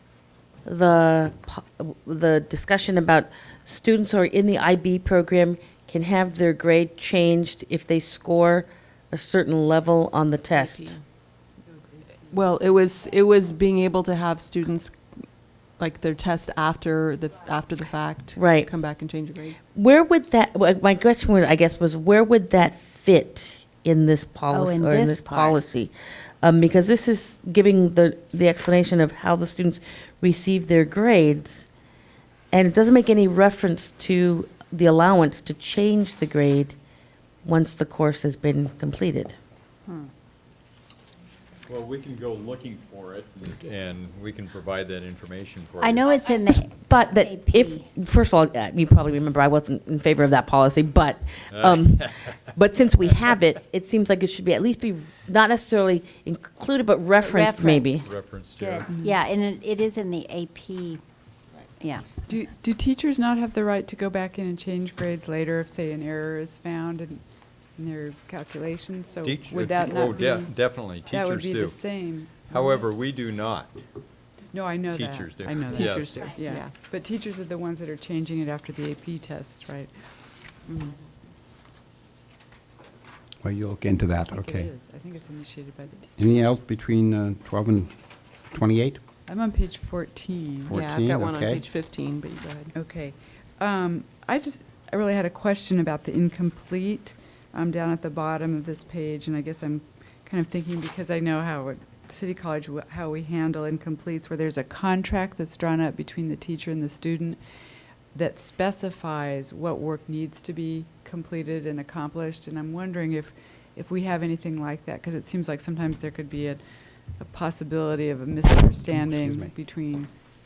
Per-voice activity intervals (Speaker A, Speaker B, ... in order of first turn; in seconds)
Speaker A: 0.7-10.9, 18.4-18.7, 19.7-31.7, 32.5-36.8, 37.4-39.4, 46.6-58.1
Speaker B: 10.5-11.0, 12.3-15.0, 15.8-19.6, 75.8-76.7, 90.7-92.7
Speaker C: 24.5-25.6, 45.8-47.9, 57.2-61.0, 61.8-62.1
Speaker D: 41.7-46.1, 51.5-52.3, 58.0-58.9, 69.2-71.8, 72.5-73.7, 74.9-76.2
Speaker E: 62.3-67.2, 67.8-70.5, 71.1-72.8, 74.5-79.9, 80.7-80.9, 84.3-86.1, 89.3-90.8, 92.7-107.4, 108.1-116.6, 117.2-120.1
Speaker F: 83.4-84.7, 86.2-87.9, 88.5-89.0, 90.7-91.6, 118.9-119.5